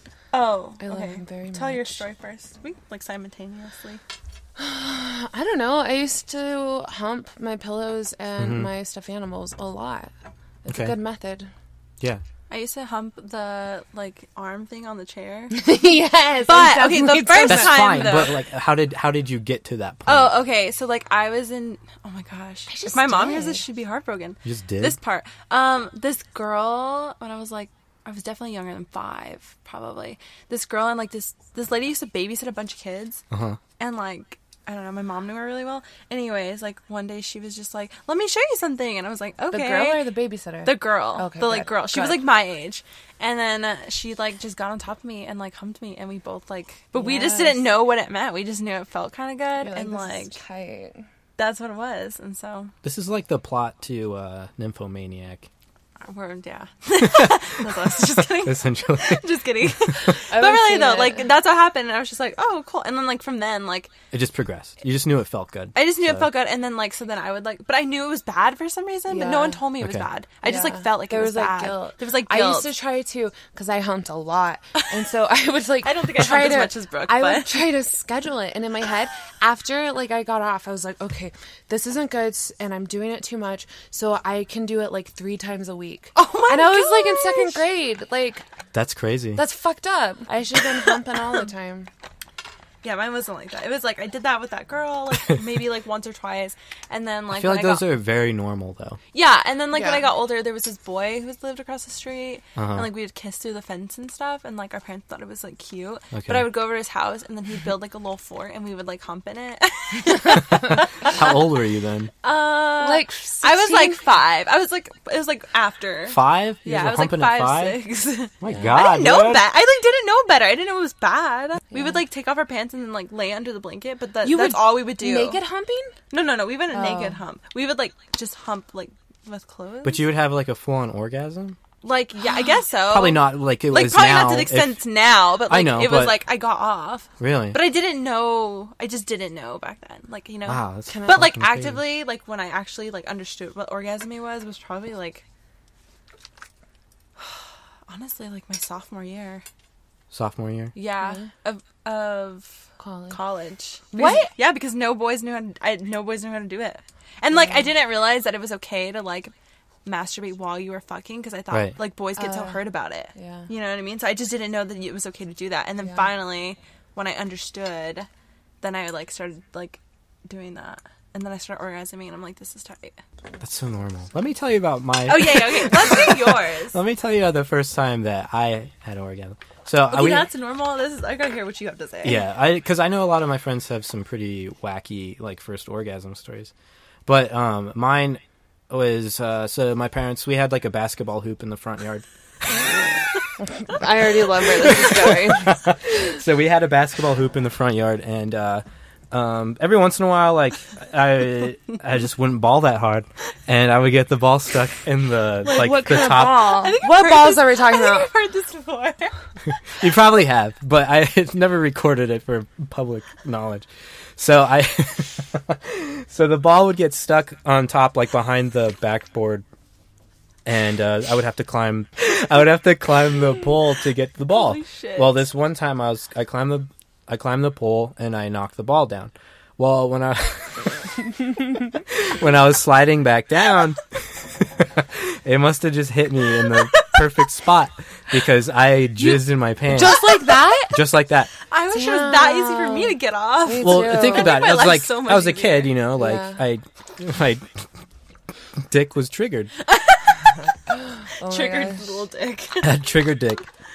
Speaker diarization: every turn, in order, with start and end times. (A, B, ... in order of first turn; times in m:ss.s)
0:00.3-0:04.0 A
0:00.8-0:02.0 B
0:04.6-0:10.1 B
0:08.4-0:08.7 C
0:10.6-0:11.5 B
0:10.7-0:10.9 C
0:12.5-0:15.6 A
0:15.5-0:18.2 B
0:16.4-0:18.4 A
0:17.4-0:20.3 C
0:20.0-0:33.2 A
0:22.7-0:23.6 B
0:24.4-0:25.0 C
0:33.3-0:33.6 C
0:33.8-0:40.1 A
0:39.5-0:42.2 B
0:40.6-0:50.4 A
0:46.9-0:47.7 B
0:49.6-0:51.0 B
0:51.4-0:52.7 A
0:52.8-0:55.5 C
0:56.0-1:03.9 A
0:57.0-0:57.4 C
0:58.3-1:00.2 C
1:00.3-1:01.3 B
1:04.1-1:06.3 C
1:05.7-1:12.7 A
1:09.1-1:09.6 B
1:09.8-1:10.1 C
1:10.4-1:28.4 B
1:15.8-1:17.7 A
1:26.1-1:27.6 A
1:28.7-1:29.4 C
1:29.4-1:31.9 B
1:30.8-1:31.4 A
1:32.8-1:37.9 A
1:37.3-1:39.0 C
1:39.1-1:51.3 A
1:39.7-1:40.0 B
1:42.6-1:42.9 C
1:46.1-1:46.5 C
1:50.4-1:52.1 C
1:52.2-2:05.4 A
1:52.8-1:54.0 B
1:56.1-1:57.8 C
1:58.4-1:59.5 C
1:58.5-1:58.7 B
2:01.7-2:02.0 B
2:04.2-2:06.0 B
2:06.1-2:10.1 A
2:06.7-2:07.2 B
2:09.8-2:11.6 C
2:11.8-2:25.2 A
2:12.9-2:14.8 C
2:15.5-2:16.2 C
2:17.2-2:17.6 C
2:20.4-2:21.8 C
2:27.2-2:29.4 A
2:30.1-2:30.7 C
2:30.7-2:39.3 A
2:32.8-2:33.2 B
2:33.9-2:34.3 B
2:37.3-2:37.7 B
2:39.8-2:48.1 A
2:42.2-2:42.6 B
2:43.1-2:43.5 B
2:48.6-2:53.0 A
2:53.4-3:00.3 C
2:55.0-2:56.8 A
2:59.9-3:02.2 A
3:02.0-3:06.5 C
3:07.0-3:12.7 C
3:13.4-3:15.7 B
3:14.4-3:26.6 C
3:25.4-3:28.1 B
3:26.6-3:29.1 A
3:29.6-3:39.4 C
3:40.4-3:51.1 C
3:44.3-3:45.3 A
3:51.8-4:01.3 C
3:59.0-4:00.8 B
4:01.5-4:05.8 A
4:01.7-4:04.4 B
4:03.6-4:07.7 C
4:05.9-4:06.4 B
4:08.6-4:09.5 C
4:09.6-4:10.4 A
4:10.7-4:11.9 B
4:11.2-4:12.8 A
4:12.6-4:13.4 C